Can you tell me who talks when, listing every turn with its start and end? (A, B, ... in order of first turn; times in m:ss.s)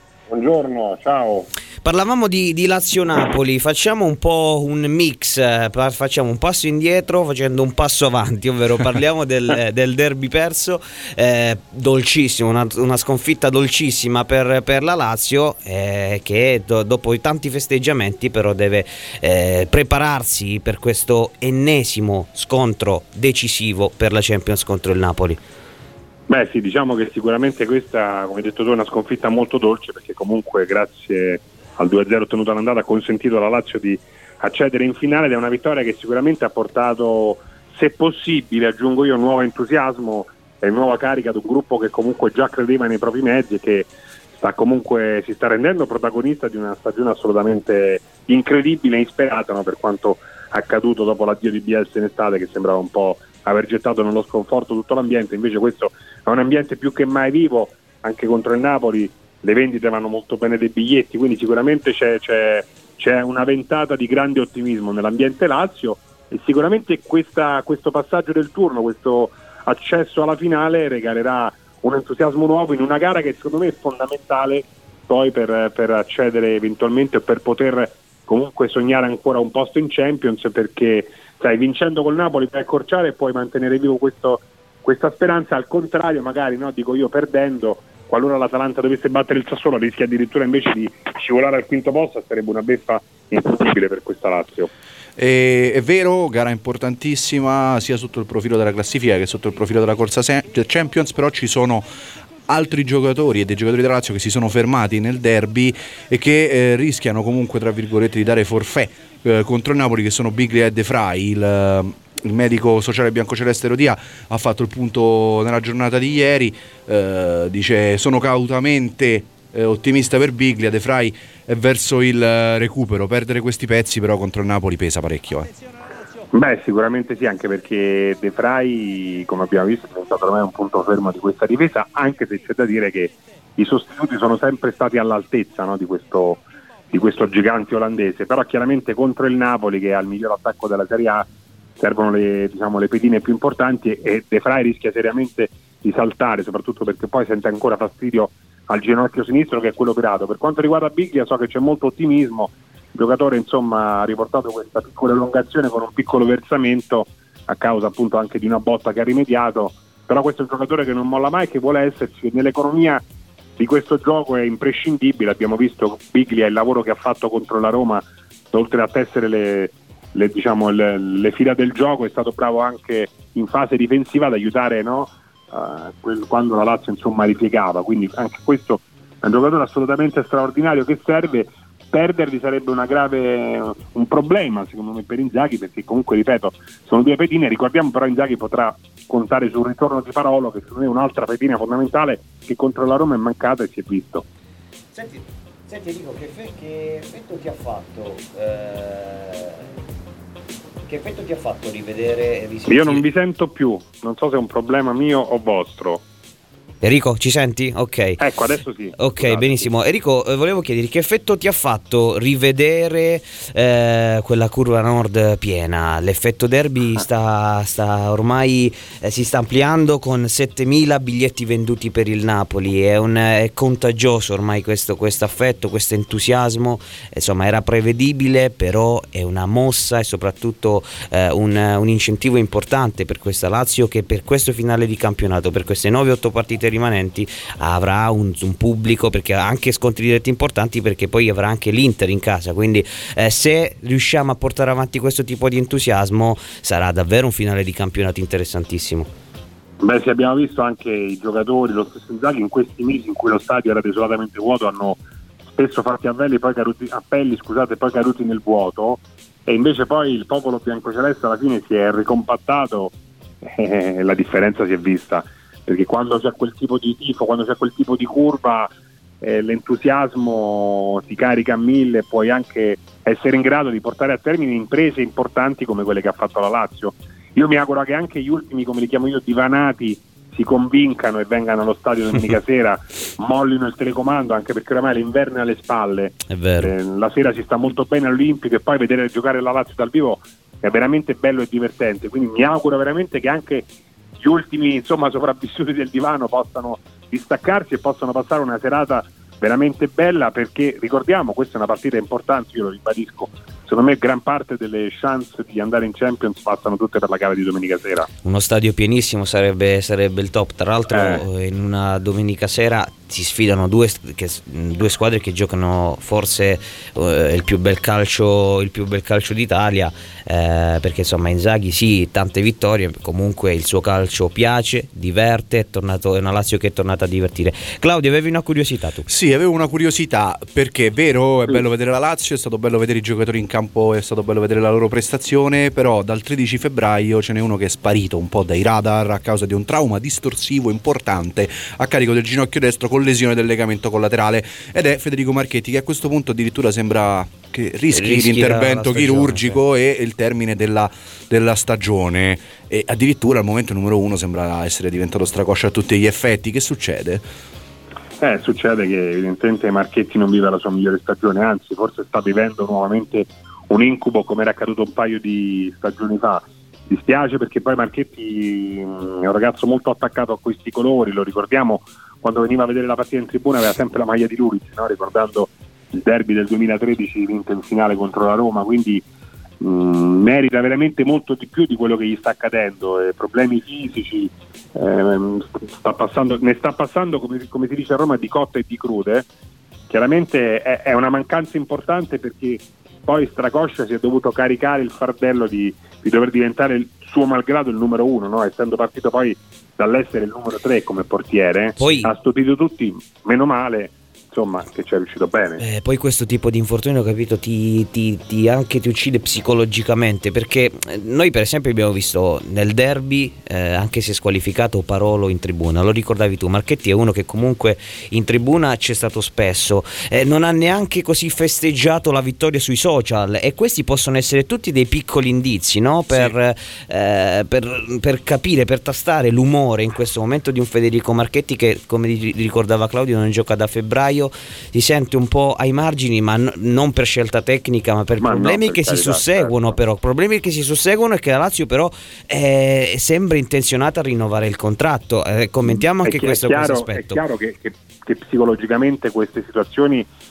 0:00.3-0:01.5 A
0:01.8-0:25.4 B
0:26.3-1:34.7 A
1:35.2-1:41.9 C
1:42.5-2:05.5 C
2:06.3-2:21.3 A
2:21.8-2:43.0 A
2:43.6-3:14.2 A
3:14.9-3:19.7 B
3:20.9-3:23.0 B
3:22.7-3:26.0 A
3:26.8-3:28.2 B
3:28.2-3:29.7 A
3:29.0-4:09.1 B
4:09.8-4:15.0 A
4:15.5-4:28.7 A
4:29.2-4:53.7 A
4:46.3-4:46.7 B
4:54.2-5:08.1 A
5:08.2-5:29.0 B
5:10.9-5:11.2 A
5:29.1-5:57.2 C
5:47.9-5:49.6 B
5:58.2-6:19.0 A
6:19.6-6:29.2 A
6:29.9-6:45.6 A
6:41.8-6:42.1 B
6:45.6-7:27.2 B
7:18.2-7:19.8 A
7:25.7-7:30.1 A